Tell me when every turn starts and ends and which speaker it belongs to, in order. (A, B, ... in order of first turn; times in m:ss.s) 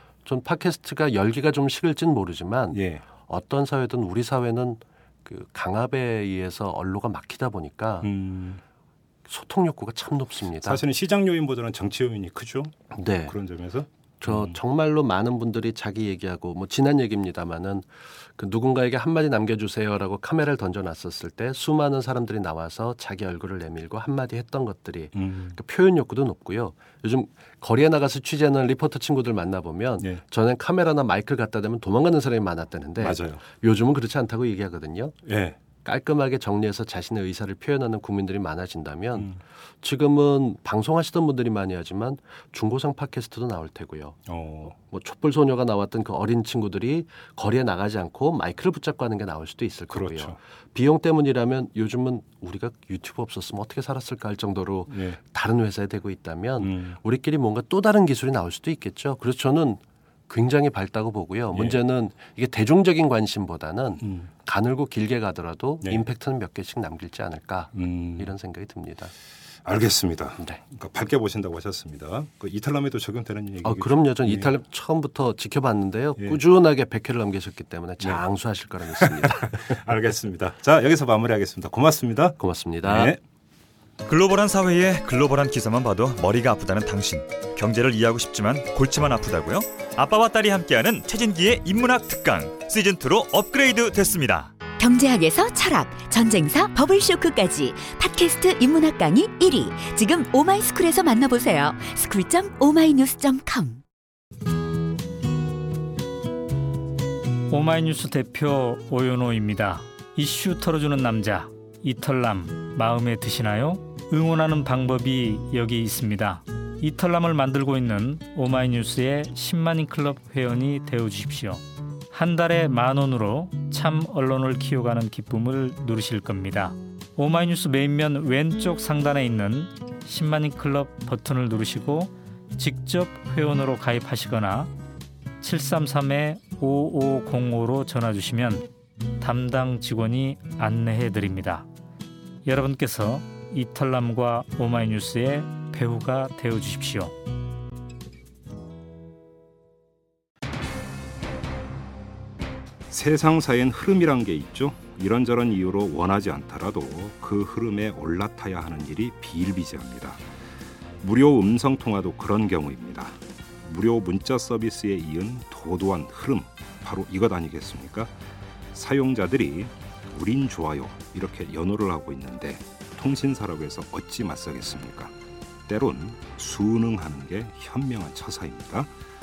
0:00.2-0:08.1 A
0:02.7-0:03.0 B
0:08.0-0:08.6 B
0:09.3-0:10.8 A
0:10.6-0:12.7 B
0:12.9-0:13.4 A
0:13.3-0:14.6 B
0:14.2-0:35.2 A
0:25.1-0:25.6 B
0:33.0-0:33.4 B
0:35.3-0:35.6 B
0:35.8-0:39.3 A
0:39.8-0:44.2 A
0:44.3-0:44.8 B
0:44.8-1:09.1 A
0:49.9-0:50.4 B
0:54.9-0:55.2 B
0:56.6-0:57.0 B
1:01.5-1:01.8 B
1:04.0-1:04.3 B
1:07.7-1:08.3 B
1:09.6-1:14.5 B
1:13.6-1:19.6 A
1:19.0-1:23.2 B
1:22.4-1:23.1 A
1:24.0-1:34.5 C
1:34.8-1:43.8 D
1:47.5-2:14.7 E
2:15.4-2:18.7 E
2:19.2-2:21.7 E
2:22.4-2:27.2 E
2:32.9-2:40.2 B
2:41.0-2:48.1 B
2:48.7-2:55.2 B
2:55.7-2:58.9 B